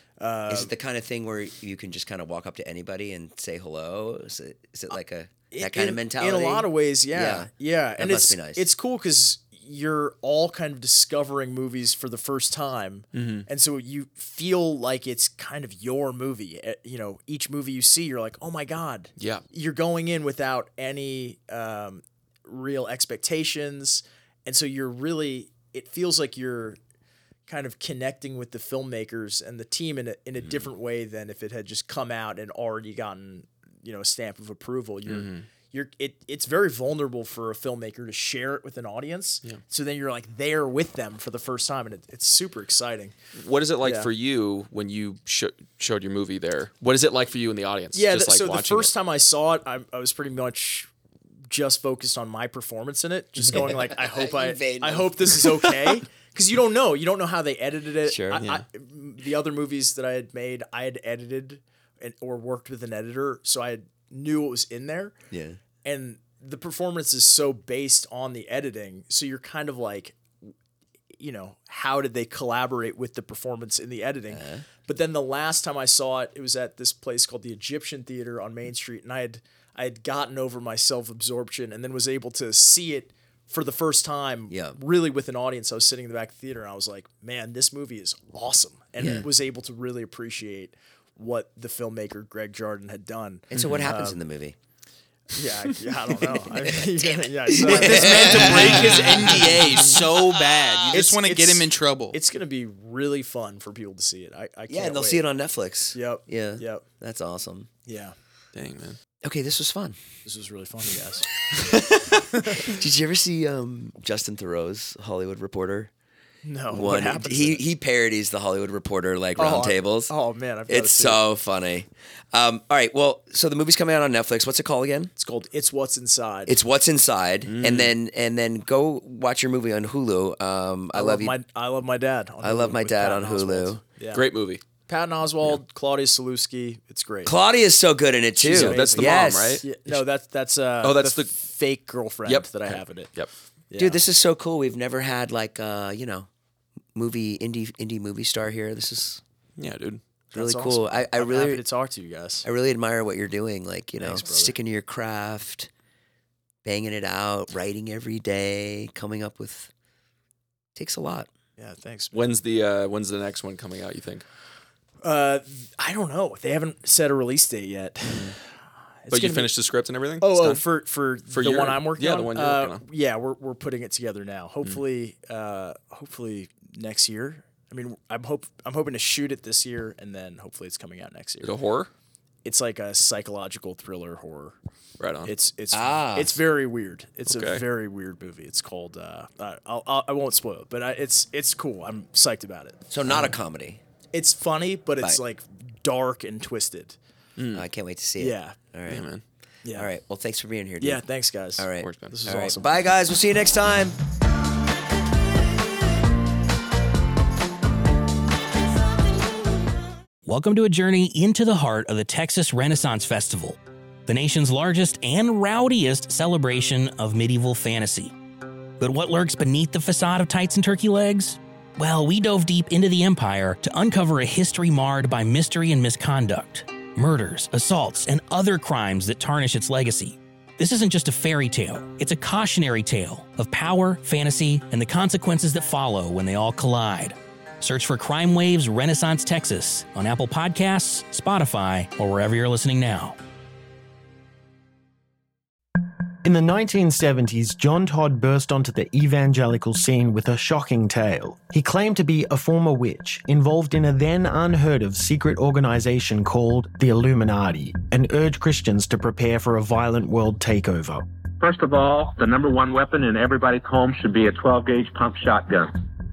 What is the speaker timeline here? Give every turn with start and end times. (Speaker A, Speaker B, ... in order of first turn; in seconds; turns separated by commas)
Speaker A: 0.2-0.7, Speaker B: 0.5-8.7, Speaker A: 5.5-26.8, Speaker C: 13.1-13.5, Speaker C: 19.2-19.4, Speaker A: 27.5-43.1, Speaker C: 35.1-35.5, Speaker C: 43.4-48.9, Speaker A: 43.8-44.1, Speaker A: 47.9-50.9, Speaker A: 51.5-65.2, Speaker B: 53.5-55.5, Speaker B: 58.1-58.6, Speaker B: 65.3-65.6, Speaker A: 65.8-70.2, Speaker A: 71.2-94.2, Speaker B: 74.3-74.6, Speaker B: 84.5-84.8, Speaker B: 93.5-94.6, Speaker C: 93.5-93.9, Speaker A: 95.3-100.0, Speaker B: 96.6-99.4, Speaker D: 97.8-102.2, Speaker C: 98.5-99.2, Speaker A: 100.9-105.2, Speaker B: 104.7-107.7, Speaker A: 105.9-106.8, Speaker A: 107.9-108.1, Speaker C: 108.5-109.0, Speaker B: 109.2-110.0, Speaker A: 110.2-111.3, Speaker B: 111.9-115.9, Speaker A: 116.4-117.6, Speaker B: 116.7-120.1, Speaker A: 119.4-121.2, Speaker B: 120.7-125.1, Speaker A: 125.2-126.6, Speaker B: 126.5-131.4, Speaker C: 127.5-127.9, Speaker A: 130.9-134.2, Speaker B: 132.4-133.8, Speaker C: 134.1-134.6, Speaker A: 134.9-137.3, Speaker B: 137.2-139.7, Speaker A: 138.4-143.1, Speaker C: 138.5-140.0, Speaker C: 140.8-141.3, Speaker C: 142.3-143.3, Speaker A: 143.7-144.0, Speaker B: 143.8-146.3, Speaker B: 146.9-149.2, Speaker C: 149.6-150.0, Speaker A: 150.3-152.4, Speaker B: 150.3-151.6, Speaker B: 152.4-155.7, Speaker A: 154.0-154.6, Speaker B: 156.6-159.7, Speaker B: 160.8-161.3, Speaker A: 161.6-162.3, Speaker C: 162.1-164.2, Speaker A: 165.0-168.4, Speaker C: 168.1-168.4, Speaker A: 169.0-169.5, Speaker C: 169.1-170.6, Speaker A: 170.2-181.5, Speaker C: 171.3-172.8, Speaker C: 181.4-181.9, Speaker A: 182.4-184.5, Speaker C: 185.0-185.3, Speaker A: 185.2-193.3, Speaker B: 185.7-186.4, Speaker C: 187.3-187.6, Speaker B: 192.9-193.8, Speaker A: 194.1-197.0, Speaker C: 197.4-197.7, Speaker B: 197.5-199.1, Speaker A: 198.2-198.6, Speaker C: 198.9-199.2, Speaker B: 199.7-201.0, Speaker A: 200.8-202.7, Speaker B: 201.6-204.0, Speaker C: 201.8-202.2, Speaker E: 210.2-218.1, Speaker E: 218.8-243.2, Speaker F: 246.2-261.1, Speaker G: 261.4-265.8